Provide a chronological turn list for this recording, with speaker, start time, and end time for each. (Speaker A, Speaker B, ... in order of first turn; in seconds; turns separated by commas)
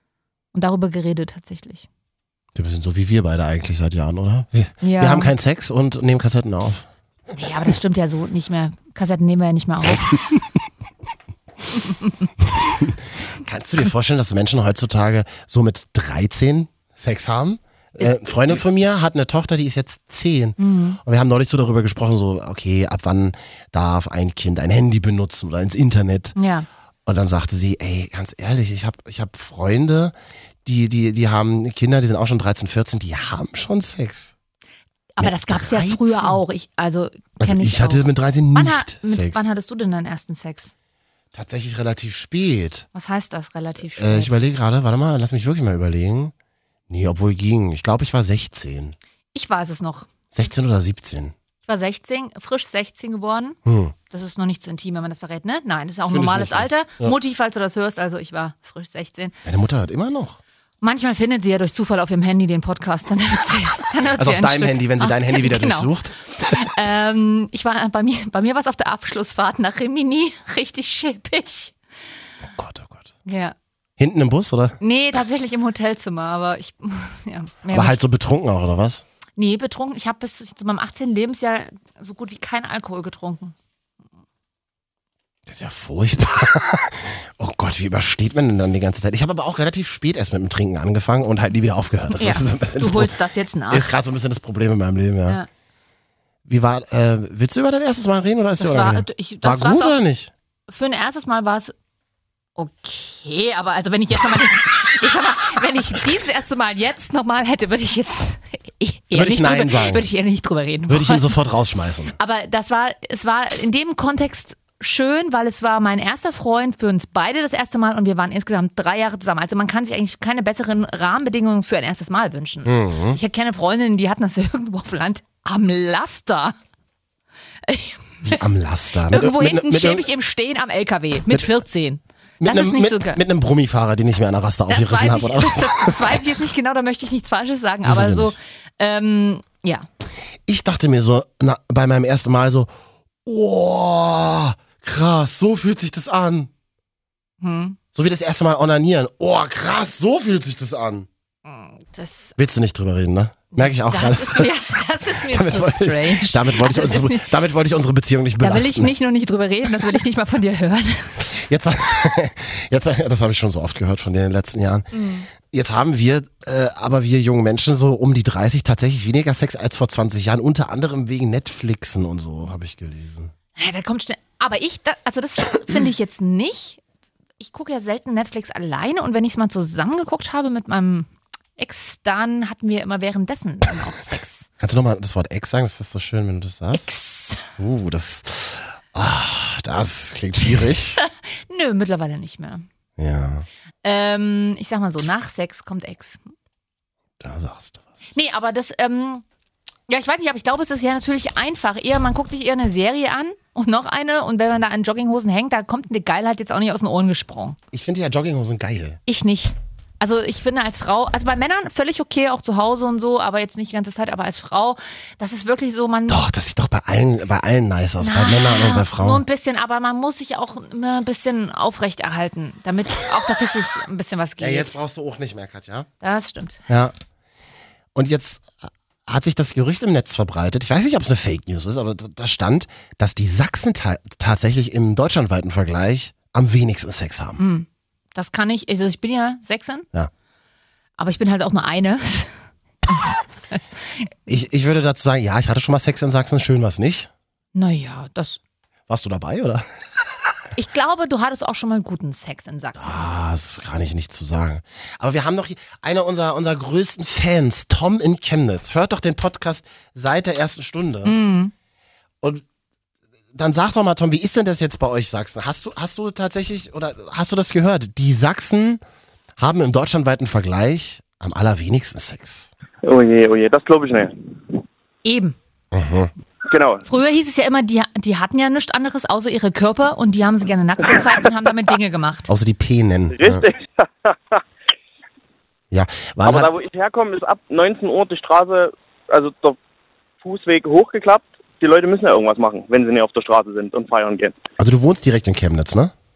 Speaker A: 0.5-1.9, Speaker B: 2.5-6.9, Speaker A: 4.8-5.3, Speaker A: 7.3-10.2, Speaker B: 12.6-26.4, Speaker A: 20.6-21.0, Speaker A: 26.4-26.7, Speaker B: 27.1-30.1, Speaker B: 30.6-34.3, Speaker A: 35.2-40.7, Speaker B: 35.2-36.4, Speaker B: 37.4-39.5, Speaker B: 41.3-42.9, Speaker A: 42.9-44.3, Speaker B: 44.0-46.3, Speaker B: 46.9-49.0, Speaker A: 49.3-50.1, Speaker B: 50.3-51.3, Speaker A: 51.6-53.6, Speaker B: 53.6-53.9, Speaker A: 54.1-59.3, Speaker B: 56.1-57.2, Speaker B: 59.4-60.4, Speaker A: 60.8-71.8, Speaker B: 64.2-66.7, Speaker B: 72.5-73.1, Speaker A: 73.2-73.5, Speaker B: 74.0-74.8, Speaker A: 74.8-78.0, Speaker B: 77.7-79.0, Speaker A: 79.4-83.5, Speaker B: 85.5-95.4, Speaker A: 92.2-93.9, Speaker B: 96.5-100.3, Speaker A: 98.6-100.0, Speaker A: 100.7-101.7, Speaker A: 102.6-111.3, Speaker B: 109.1-110.1, Speaker B: 110.9-112.2, Speaker A: 112.2-126.5, Speaker B: 122.7-123.2, Speaker A: 127.7-128.4, Speaker B: 128.2-130.1, Speaker A: 129.1-133.2, Speaker B: 132.4-136.2, Speaker A: 134.7-139.9, Speaker B: 137.8-138.3, Speaker B: 140.5-142.7, Speaker B: 143.2-146.5, Speaker A: 147.4-147.8, Speaker B: 147.9-151.1, Speaker A: 151.5-152.3, Speaker B: 152.4-154.6, Speaker A: 153.6-157.3, Speaker B: 155.3-158.9, Speaker A: 158.4-161.3, Speaker B: 161.3-173.3, Speaker A: 164.9-165.3, Speaker A: 173.6-176.8, Speaker A: 177.4-184.5, Speaker B: 184.6-186.9, Speaker A: 186.7-187.5, Speaker B: 187.6-191.0, Speaker A: 191.0-192.7, Speaker B: 193.0-193.5, Speaker A: 193.8-196.2, Speaker B: 197.2-197.9, Speaker A: 198.1-199.2, Speaker A: 199.9-207.6, Speaker B: 207.7-209.0, Speaker A: 209.1-216.2, Speaker B: 216.1-219.2, Speaker A: 218.0-224.8, Speaker B: 224.4-225.9, Speaker A: 226.0-226.6, Speaker B: 227.9-237.4, Speaker A: 237.4-239.8, Speaker A: 241.0-244.2, Speaker B: 244.3-247.1, Speaker A: 247.5-248.4, Speaker B: 248.9-249.7, Speaker A: 250.6-253.1, Speaker B: 252.8-261.1, Speaker A: 261.0-261.5, Speaker B: 263.3-268.8, Speaker B: 269.4-272.5, Speaker C: 272.8-274.6, Speaker A: 275.0-275.4, Speaker B: 275.7-276.1, Speaker C: 276.5-276.9, Speaker A: 276.9-282.3, Speaker B: 282.3-283.5, Speaker C: 283.1-284.4, Speaker B: 285.7-286.5, Speaker C: 286.2-289.6, Speaker C: 290.2-294.4, Speaker B: 294.6-295.9